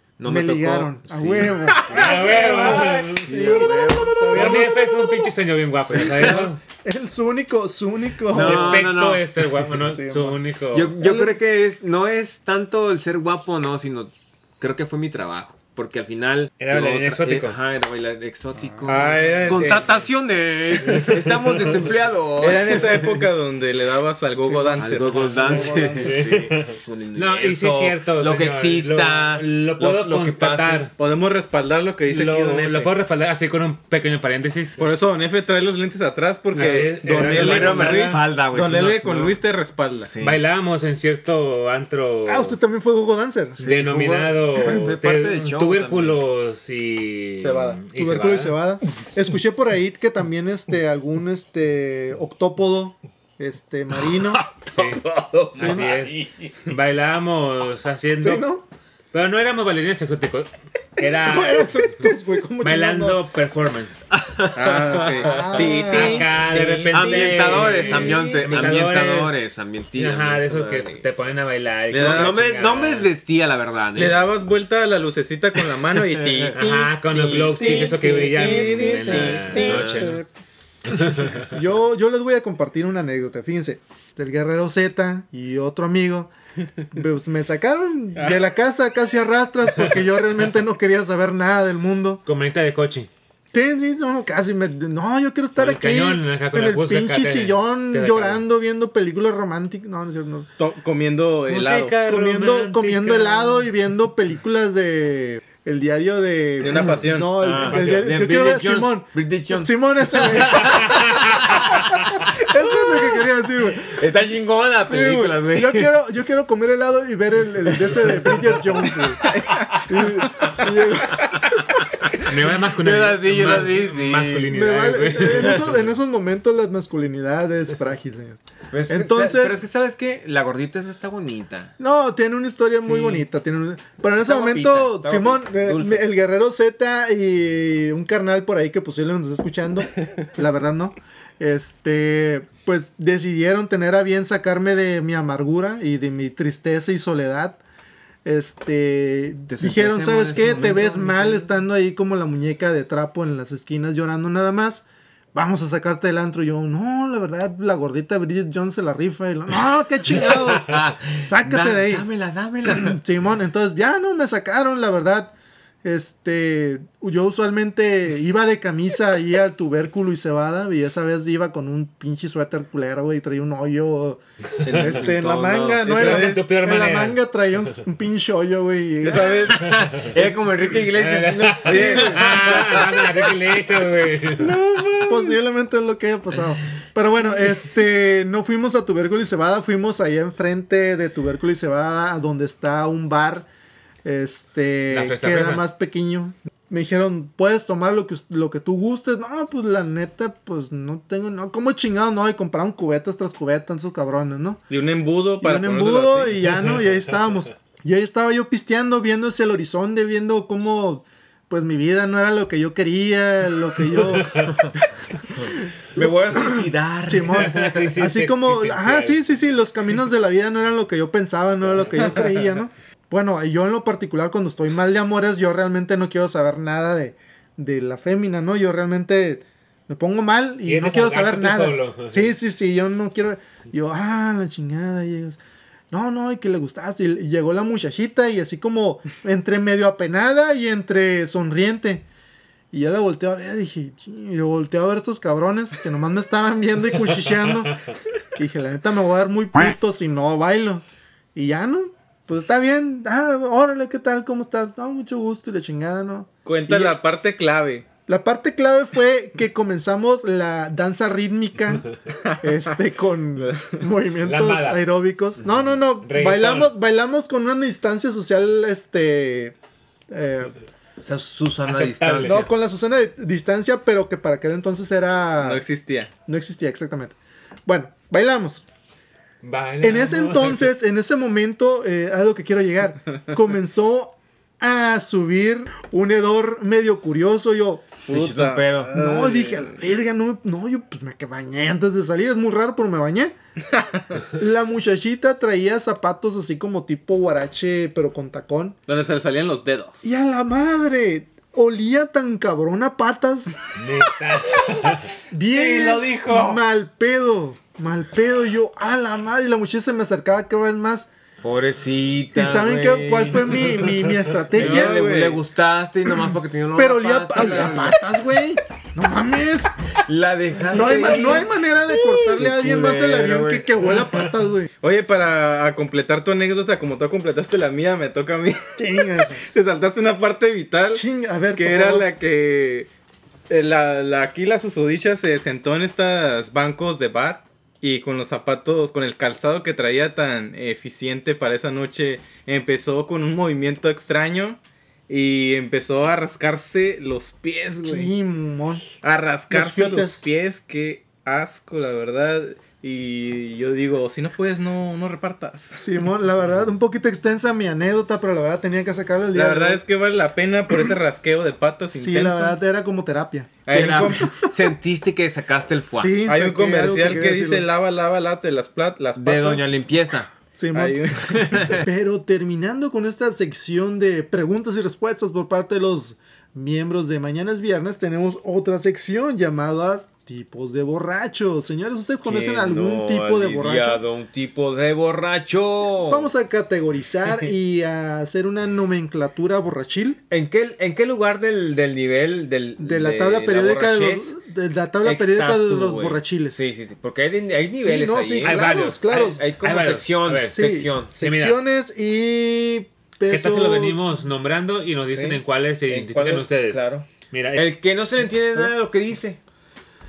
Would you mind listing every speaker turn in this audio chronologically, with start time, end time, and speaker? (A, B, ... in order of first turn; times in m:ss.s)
0:00.2-0:04.7 A
0:00.2-0:05.3 B
0:01.9-0:03.7 C
0:04.3-0:06.6 C
0:05.9-0:08.9 B
0:05.9-0:06.4 A
0:08.3-0:09.2 A
0:08.3-0:11.0 C
0:09.8-0:10.4 B
0:10.7-0:23.2 A
0:11.0-0:11.4 B
0:16.6-0:17.6 C
0:18.5-0:19.4 B
0:18.9-0:19.9 D
0:22.4-0:25.7 D
0:24.4-0:26.4 B
0:24.8-0:30.9 A
0:25.4-0:30.9 C
0:31.0-0:32.9 D
0:32.1-0:34.8 C
0:34.8-0:40.1 D
0:36.5-0:38.2 C
0:37.1-0:39.5 A
0:40.0-0:40.4 A
0:40.2-0:42.6 C
0:42.3-0:43.6 B
0:43.6-0:46.2 A
0:43.6-0:48.6 C
0:47.4-0:47.8 D
0:48.0-0:54.4 B
0:54.7-0:58.5 C
0:55.4-0:56.3 A
0:55.6-0:56.0 B
0:58.2-0:58.7 B
0:59.1-1:04.1 C
1:01.0-1:03.2 B
1:04.2-1:05.6 A
1:04.6-1:08.2 D
1:05.2-1:06.3 B
1:05.5-1:09.4 C
1:06.9-1:11.1 A
1:10.0-1:13.1 C
1:11.9-1:12.4 D
1:11.9-1:14.3 A
1:14.0-1:16.9 D
1:16.0-1:20.2 A
1:16.6-1:20.2 C
1:17.5-1:19.9 D
1:20.9-1:21.5 C
1:21.4-1:26.3 B
1:26.9-1:32.2 B
1:32.3-1:33.1 C
1:33.5-1:40.5 B
1:35.6-1:38.4 C
1:40.6-1:42.0 D
1:41.5-1:43.7 C
1:42.0-1:54.0 B
1:46.6-1:47.3 D
1:47.4-1:52.0 A
1:47.6-1:48.5 C
1:50.6-1:51.3 C
1:53.9-1:55.9 A
1:54.9-2:01.5 B
1:57.8-1:59.6 A
1:59.3-1:59.8 D
2:02.2-2:05.7 C
2:02.8-2:04.6 A
2:04.5-2:09.6 B
2:05.3-2:05.6 A
2:08.7-2:11.7 A
2:11.8-2:27.6 B
2:12.8-2:13.2 A
2:14.2-2:16.0 A
2:28.2-2:42.1 B
2:29.5-2:31.5 A
2:40.1-2:43.0 A
2:42.6-2:59.7 B
2:54.6-2:56.2 A
2:55.8-2:56.4 D
2:56.0-2:57.2 C
2:59.0-3:03.3 A
3:00.7-3:04.6 C
3:01.6-3:02.8 B
3:05.0-3:13.5 B
3:14.0-3:24.6 B
3:14.9-3:15.6 C
3:24.7-3:26.5 D
3:25.4-3:34.5 B
3:34.4-3:34.7 A
3:35.4-3:37.9 A
3:36.0-3:55.4 B
3:37.3-3:39.2 C
3:50.6-3:52.4 C
3:55.9-4:02.1 B
4:02.7-4:07.8 B
4:08.4-4:17.0 B
4:16.4-4:17.9 D
4:18.1-4:21.9 B
4:22.4-4:29.6 B
4:23.4-4:23.8 D
4:24.2-4:24.8 C
4:26.0-4:26.7 C
4:30.1-4:30.6 B
4:31.0-4:32.5 A
4:31.6-4:32.5 C
4:32.2-4:35.6 B
4:35.4-4:36.1 D
4:36.3-4:38.7 B
4:39.4-4:40.7 C
4:39.8-4:48.0 B
4:48.1-4:49.0 A
4:48.1-4:49.8 D
4:48.9-4:53.3 B
4:53.7-4:54.2 D
4:54.3-4:58.8 B
4:58.9-5:00.0 D
5:00.0-5:03.6 B
5:03.8-5:05.1 C
5:05.3-5:11.1 B
5:05.5-5:06.6 D
5:11.4-5:13.9 A
5:12.3-5:15.0 B
5:14.5-5:18.0 A
5:14.6-5:15.4 D
5:16.8-5:19.8 B
5:20.1-5:21.5 A
5:20.7-5:24.7 B
5:21.0-5:21.2 D
5:22.2-5:24.0 A
5:24.8-5:28.7 D
5:28.8-5:29.4 B
5:29.3-5:32.9 D
5:30.9-5:32.1 B
5:33.5-5:48.1 D
5:47.8-5:48.8 B
5:49.0-5:55.9 D
5:49.5-5:50.2 B
5:55.7-5:59.8 B
5:59.3-6:02.6 D
6:01.9-6:03.6 B
6:03.6-6:04.3 D
6:03.7-6:06.2 A
6:05.9-6:07.7 B
6:06.2-6:09.7 D
6:09.2-6:10.3 A
6:10.6-6:11.0 B
6:10.7-6:11.8 D
6:11.3-6:11.9 A
6:11.8-6:24.0 B
6:22.2-6:26.3 A
6:26.1-6:30.2 B
6:30.3-6:34.3 A
6:32.8-6:36.6 B
6:35.0-6:41.1 A
6:37.8-6:39.4 B
6:38.4-6:41.6 C
6:40.5-6:44.0 B
6:43.3-6:47.7 C
6:45.1-6:49.4 A